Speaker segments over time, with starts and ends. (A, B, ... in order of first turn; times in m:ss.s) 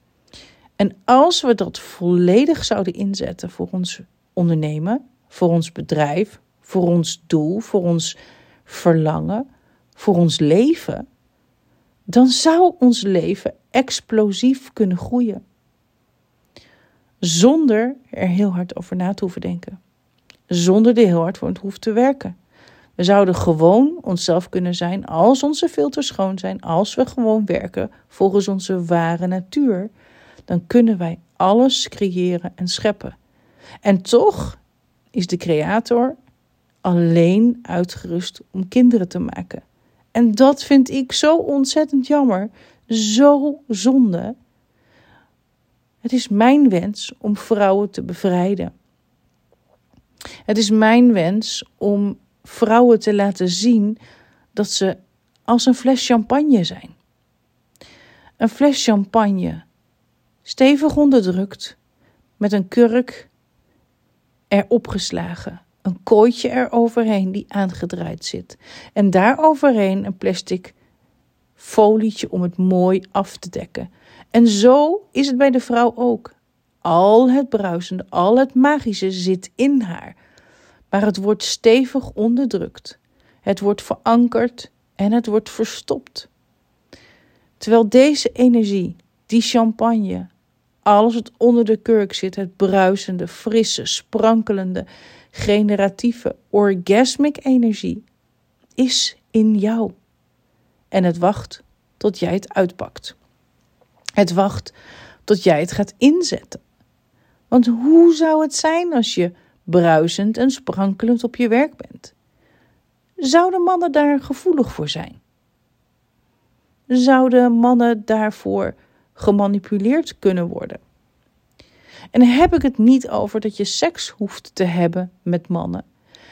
0:00.8-0:09.4 A
0:10.0-0:11.0 A
0:12.1-0:15.4 A
0:17.2-0:19.8 A
0:20.5-0:22.4 A
0:23.0-0:29.9 A
0:30.5-0:33.2 A
0:33.8-0:34.6 A
0:35.1-0:36.2 A
0:36.8-0:39.6 A
0:40.1-0:44.4 A
0:46.0-0:48.7 A
0:50.5-0:54.0 A
0:54.5-0:57.0 A
0:58.4-0:59.6 A
1:00.4-1:01.8 A
1:02.4-1:03.3 A
1:04.5-1:10.8 A
1:11.6-1:20.2 A
1:20.9-1:26.3 A
1:27.6-1:30.3 A
1:30.8-1:38.0 A
1:38.8-1:39.9 A
1:40.9-1:43.2 A
1:44.2-1:44.7 A
1:45.3-1:46.6 A
1:47.5-1:52.1 A
1:53.2-1:55.2 A
1:56.9-2:00.8 A
2:02.1-2:05.8 A